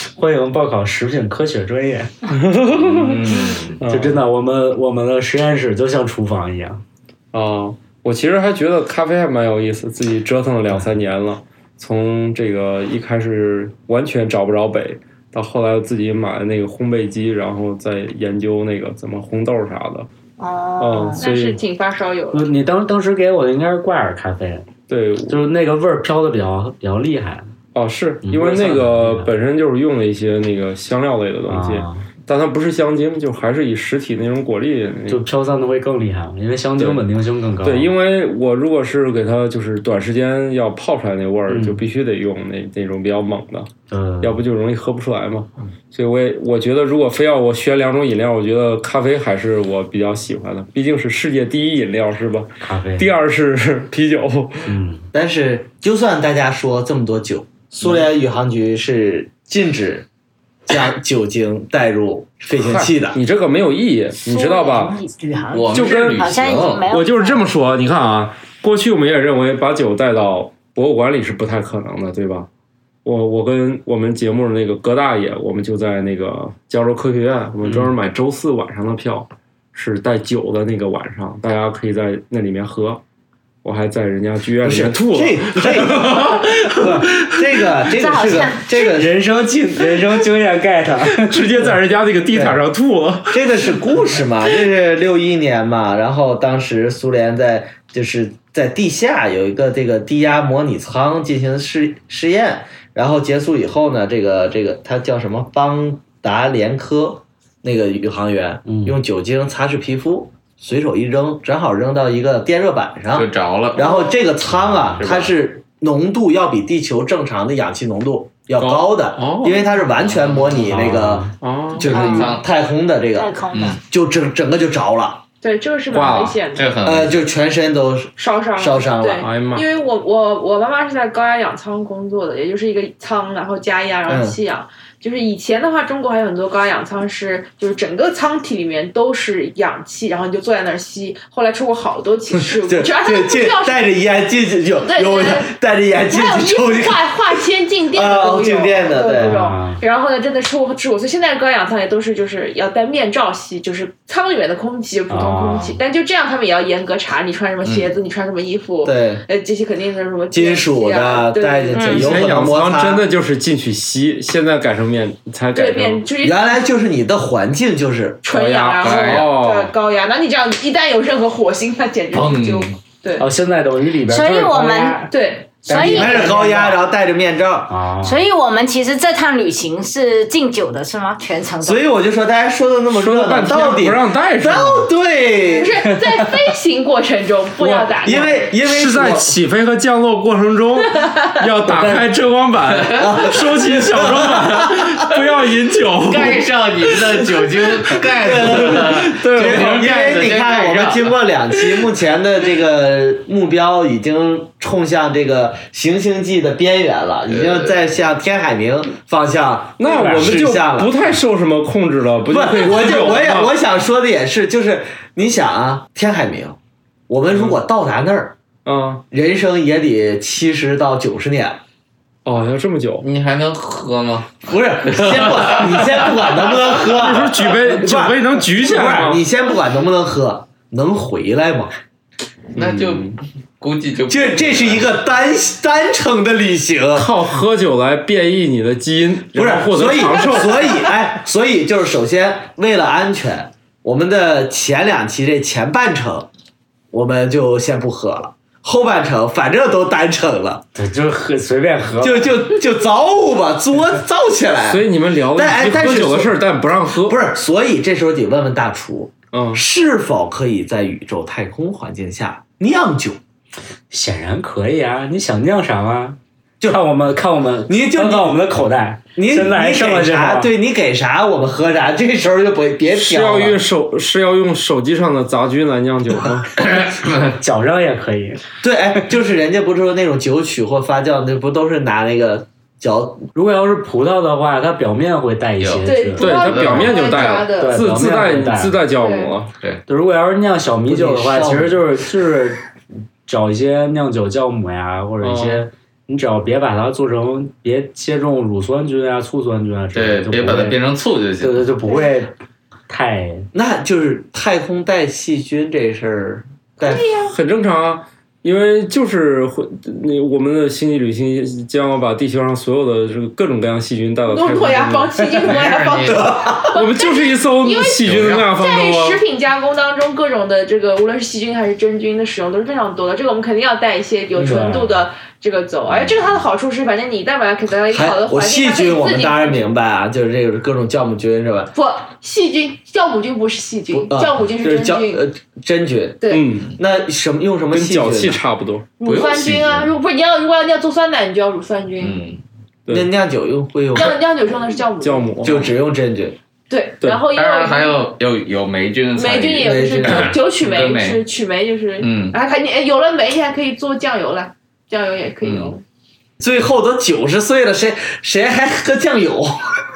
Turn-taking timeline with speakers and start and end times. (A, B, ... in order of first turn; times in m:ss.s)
0:00.2-0:02.1 A
0:02.3-0:03.3 B
0:02.9-0:03.8 C
0:03.8-0:06.8 A
0:03.8-0:04.2 B
0:07.3-0:20.1 B
0:20.4-0:21.2 D
0:20.8-0:21.5 B
0:21.2-0:22.5 E
0:21.3-0:21.6 A
0:22.3-0:24.7 A
0:24.9-0:25.4 B
0:25.3-0:27.5 A
0:27.7-0:35.2 B
0:28.2-0:29.3 A
0:31.5-0:32.0 A
0:35.1-0:37.9 A
0:36.8-0:37.0 B
0:37.6-0:54.7 B
0:41.5-0:41.8 A
0:43.9-0:44.4 A
0:52.6-0:53.0 A
0:54.6-0:55.0 A
0:55.1-1:00.0 F
1:00.7-1:03.2 F
1:03.0-1:05.0 B
1:04.2-1:07.4 D
1:05.5-1:06.8 C
1:05.7-1:12.5 B
1:13.0-1:23.0 B
1:17.6-1:17.9 A
1:23.6-1:27.6 B
1:24.6-1:29.1 F
1:27.9-1:28.7 D
1:28.7-1:31.7 A
1:31.1-1:33.6 B
1:32.3-1:32.6 F
1:33.3-2:05.2 F
1:48.7-1:48.9 A
1:53.1-1:53.8 C
1:53.8-1:54.1 E
1:54.5-1:55.0 A
1:55.0-1:55.3 C
1:58.6-1:59.8 B
2:00.0-2:00.6 C
2:00.5-2:01.3 A
2:01.4-2:02.2 B
2:01.8-2:02.4 D
2:01.8-2:02.4 C
2:03.2-2:03.8 D
2:03.5-2:03.8 C
2:05.4-2:06.7 E
2:05.9-2:06.4 B
2:06.5-2:07.2 C
2:06.8-2:09.2 F
2:08.2-2:23.9 E
2:09.2-2:09.7 B
2:14.1-2:14.4 F
2:22.4-2:27.4 F
2:24.7-2:25.5 E
2:26.0-2:42.0 E
2:27.9-2:29.4 F
2:29.2-2:29.8 A
2:35.1-2:35.8 A
2:37.6-2:37.9 C
2:38.8-2:39.2 F
2:40.3-2:43.0 F
2:41.7-2:42.2 D
2:41.9-2:46.0 B
2:45.5-2:46.6 E
2:46.2-2:48.2 F
2:48.2-2:53.3 E
2:48.3-2:49.7 B
2:48.8-2:49.3 C
2:52.1-2:52.7 C
2:53.2-2:55.1 A
2:54.1-2:55.0 D
2:55.1-2:55.7 E
2:55.6-2:56.8 A
2:55.7-2:56.3 D
2:55.7-2:57.7 F
2:57.7-2:58.2 A
2:58.0-3:01.8 D
3:01.6-3:05.7 F
3:02.9-3:04.9 B
3:05.6-3:08.5 E
3:07.6-3:07.9 B
3:08.0-3:09.4 F
3:08.6-3:17.4 B
3:12.7-3:13.3 C
3:13.0-3:14.6 F
3:16.0-3:21.1 C
3:18.2-3:30.9 F
3:18.3-3:19.9 B
3:27.3-3:27.7 C
3:29.8-3:33.5 B
3:29.8-3:30.3 A
3:32.3-3:36.6 F
3:37.1-3:38.3 F
3:37.3-3:37.6 B
3:38.6-3:39.0 B
3:39.1-3:41.6 F
3:42.2-3:43.0 B
3:43.0-3:46.0 C
3:44.4-3:51.7 F
3:46.7-3:49.2 B
3:52.5-3:54.8 C
3:52.5-3:53.2 B
3:54.1-3:57.1 F
3:56.9-4:00.9 B
3:59.3-4:06.3 F
4:06.9-4:10.6 F
4:10.8-4:12.4 A
4:12.0-4:16.3 F
4:14.7-4:17.2 B
4:16.9-4:23.2 F
4:19.3-4:19.6 B
4:23.9-4:30.5 A
4:27.7-4:28.4 F
4:29.1-4:33.6 F
4:32.9-4:36.7 B
4:36.6-4:37.1 C
4:37.4-4:38.4 A
4:38.6-4:43.3 F
4:43.3-4:46.4 A
4:45.6-4:47.3 C
4:45.8-4:47.8 E
4:46.2-4:49.5 B
4:47.3-4:48.8 A
4:48.9-4:49.3 E
4:49.9-4:52.6 A
4:50.8-4:51.8 F
4:53.3-5:00.8 A
4:55.2-4:55.6 B
4:59.9-5:01.7 C
5:01.4-5:02.3 A
5:02.9-5:03.5 A
5:03.5-5:07.0 F
5:06.8-5:07.4 E
5:07.2-5:15.2 B
5:14.3-5:29.6 E
5:15.4-5:16.3 C
5:16.1-5:16.7 F
5:16.7-5:19.2 B
5:18.0-5:18.5 C
5:24.3-5:25.0 A
5:27.9-5:31.7 F
5:31.7-5:35.2 E
5:33.9-5:36.2 F
5:36.2-5:36.4 E
5:36.3-5:36.7 B
5:36.8-5:38.4 F
5:37.7-5:38.9 B
5:39.0-5:42.2 E
5:39.0-5:39.9 C
5:42.0-5:42.4 C
5:42.9-5:44.2 F
5:43.9-5:45.5 E
5:45.0-5:45.6 B
5:45.4-5:46.4 F
5:46.7-5:48.0 E
5:47.3-5:51.2 C
5:49.1-5:55.8 E
5:49.6-5:50.3 F
5:52.0-5:52.4 C
5:55.4-5:55.7 C
5:56.4-5:59.6 F